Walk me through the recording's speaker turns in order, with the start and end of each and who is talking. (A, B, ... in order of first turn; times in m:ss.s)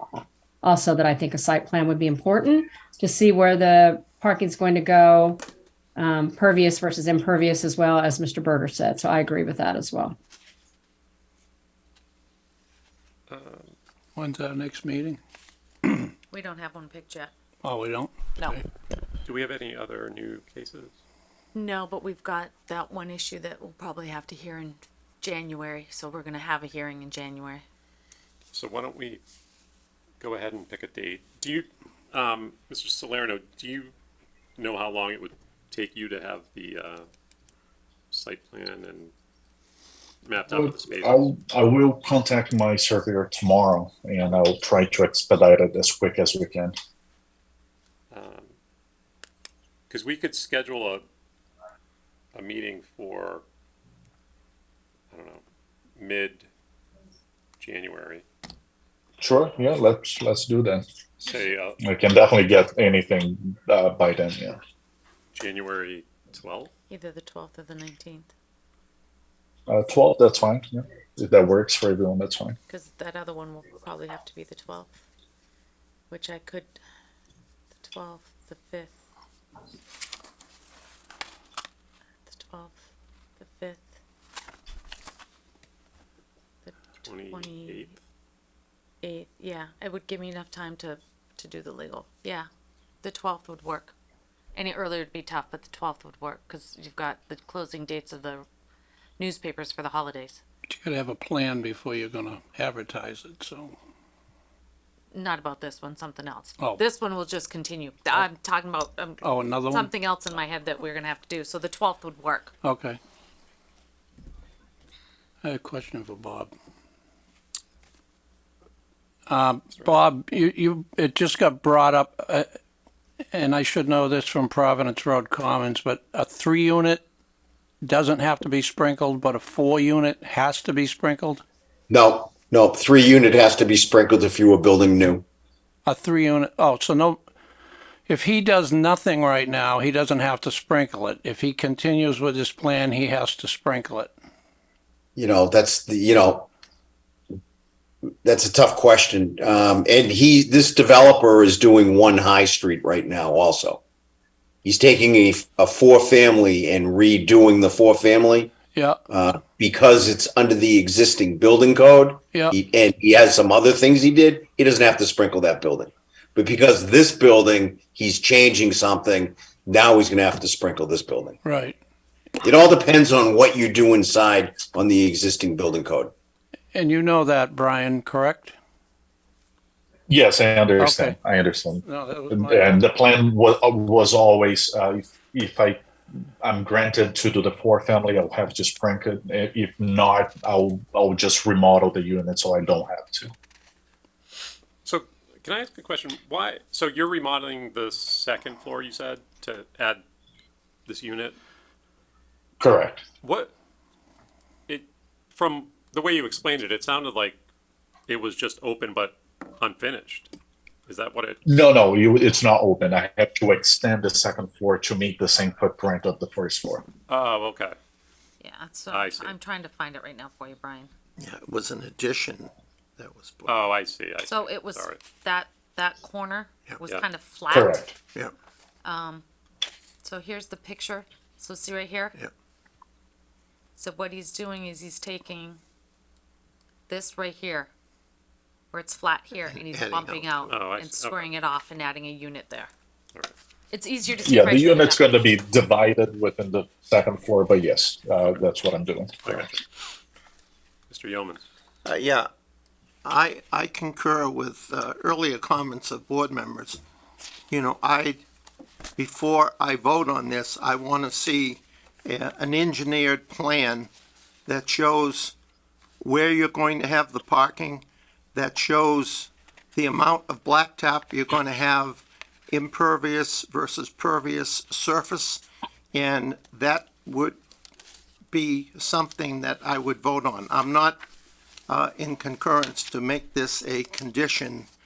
0:00.6-0:05.4 A
0:06.0-0:10.2 A
0:13.3-0:13.7 B
0:14.2-0:15.2 C
0:15.8-0:16.1 C
0:16.3-0:17.3 D
0:17.6-0:18.6 C
0:19.2-0:21.0 B
0:21.5-0:27.6 D
0:28.5-0:29.2 B
0:30.2-0:33.9 B
0:34.6-0:37.1 B
0:38.1-0:39.1 B
0:40.2-0:41.3 B
0:40.5-0:46.7 E
0:48.1-0:48.5 B
0:49.9-0:51.0 B
0:52.3-0:53.4 B
0:55.1-0:55.4 B
0:56.0-0:56.5 B
0:57.6-0:58.2 B
0:59.2-1:00.8 E
1:01.2-1:01.8 B
1:01.8-1:04.6 E
1:05.3-1:06.7 B
1:06.9-1:08.3 D
1:09.7-1:12.6 E
1:12.7-1:15.0 D
1:16.1-1:16.8 D
1:17.8-1:19.0 D
1:22.3-1:22.8 D
1:23.4-1:24.0 D
1:26.6-1:27.8 D
1:27.0-1:28.0 B
1:29.0-1:32.5 D
1:33.0-1:33.9 D
1:34.6-1:38.4 D
1:39.2-1:40.4 D
1:40.7-1:43.8 C
1:45.1-1:52.5 D
1:49.2-1:49.9 C
1:52.6-1:53.0 C
1:55.4-1:56.5 C
1:59.3-2:02.5 C
2:03.3-2:07.0 C
2:07.8-2:11.4 C
2:11.9-2:15.2 F
2:15.8-2:17.2 C
2:18.1-2:24.2 C
2:25.2-2:26.5 F
2:28.2-2:33.8 F
2:34.6-2:38.6 F
2:38.7-2:39.0 C
2:39.1-2:51.4 F
2:51.4-2:51.8 C
2:52.4-2:56.1 F
2:56.7-2:58.6 C
3:00.1-3:05.8 E
3:00.8-3:01.2 C
3:01.8-3:02.8 C
3:06.4-3:13.3 E
3:14.8-3:20.0 B
3:20.9-3:21.4 B
3:22.6-3:23.0 E
3:23.2-3:23.5 B
3:24.7-3:27.4 B
3:28.1-3:30.3 B
3:30.9-3:31.4 B
3:31.4-3:36.8 E
3:37.1-3:37.8 B
3:38.4-3:40.9 D
3:38.9-3:39.4 B
3:41.2-3:43.7 G
3:43.5-3:45.0 B
3:44.2-3:47.9 D
3:47.5-3:48.0 E
3:48.8-3:49.2 D
3:50.0-3:52.2 D
3:53.8-3:55.6 D
3:56.9-3:57.7 D
3:58.7-4:02.7 D
3:59.4-4:00.6 G
4:00.5-4:01.3 B
4:03.7-4:05.2 D
4:04.2-4:09.6 E
4:10.9-4:11.4 B
4:11.8-4:12.3 G
4:13.0-4:16.8 G
4:17.5-4:18.2 G
4:19.0-4:23.9 G
4:24.5-4:25.3 G
4:26.0-4:35.4 G
4:35.9-4:37.4 G
4:38.3-4:41.0 G
4:41.7-4:44.7 G